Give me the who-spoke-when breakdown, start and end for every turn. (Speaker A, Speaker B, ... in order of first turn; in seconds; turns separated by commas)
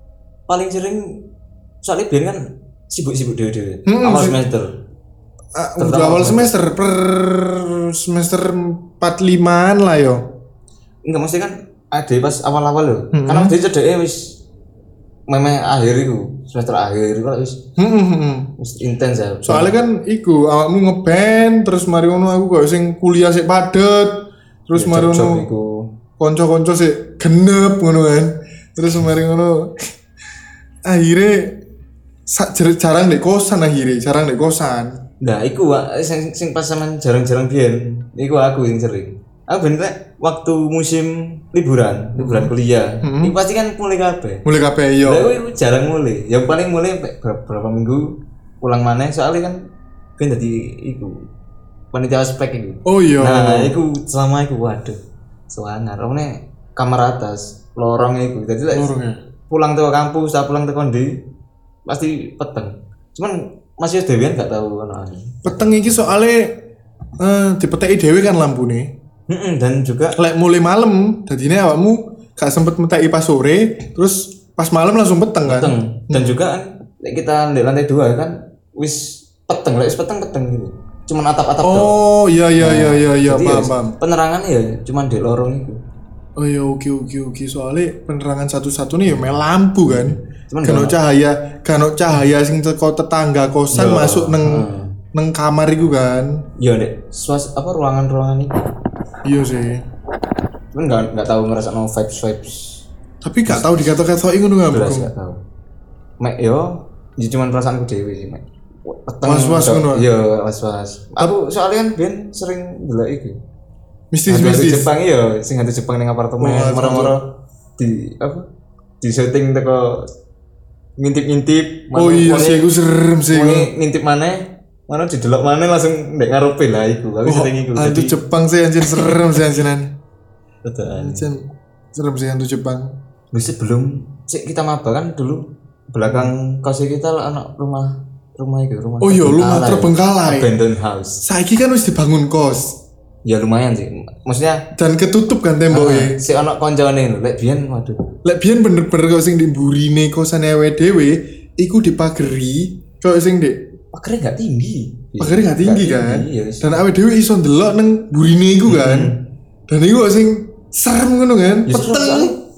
Speaker A: 0.5-1.2, Speaker A: 1.8-4.8, Speaker B: 3.9-4.4, Speaker B: 5.5-10.3, Speaker A: 5.8-6.5, Speaker A: 11.0-14.4, Speaker B: 13.1-13.6, Speaker A: 15.3-17.6, Speaker B: 17.8-18.5, Speaker A: 18.6-19.8, Speaker B: 19.5-25.5, Speaker A: 24.8-25.9, Speaker B: 26.2-29.8, Speaker B: 30.9-31.6, Speaker B: 32.3-35.0, Speaker A: 35.2-44.5, Speaker B: 42.2-42.5, Speaker B: 43.0-43.4, Speaker B: 44.5-45.3, Speaker A: 45.0-49.7, Speaker A: 50.2-51.2, Speaker A: 51.9-55.0, Speaker B: 52.9-53.8, Speaker A: 55.5-59.0, Speaker B: 58.7-59.2, Speaker A: 59.5-61.2, Speaker A: 61.9-66.1, Speaker B: 65.5-66.6, Speaker B: 67.2-68.9, Speaker A: 69.3-70.2, Speaker B: 70.2-76.4, Speaker A: 75.4-82.0, Speaker B: 81.6-84.0, Speaker A: 82.6-85.8, Speaker B: 86.4-96.5, Speaker A: 89.8-91.0, Speaker A: 93.7-95.0, Speaker A: 96.6-98.7, Speaker B: 99.2-99.8, Speaker A: 100.7-102.9, Speaker B: 103.2-105.1, Speaker A: 103.5-103.9, Speaker A: 104.7-105.4, Speaker A: 106.2-113.4, Speaker B: 109.2-110.1, Speaker B: 114.1-114.9, Speaker A: 114.3-118.5, Speaker B: 116.4-117.2, Speaker A: 119.0-120.1, Speaker A: 121.0-122.7, Speaker B: 121.9-123.7, Speaker A: 123.3-128.2, Speaker B: 127.3-129.9, Speaker A: 128.9-129.3, Speaker A: 130.6-131.3, Speaker B: 130.9-133.0, Speaker A: 133.3-141.2, Speaker B: 136.1-136.3, Speaker B: 139.0-140.5, Speaker B: 141.2-142.8, Speaker A: 143.2-144.7, Speaker B: 144.7-146.2, Speaker A: 145.7-148.1, Speaker B: 148.2-153.7, Speaker A: 153.9-156.8, Speaker B: 155.2-159.1, Speaker A: 158.7-159.2, Speaker B: 159.7-162.4, Speaker A: 161.7-162.4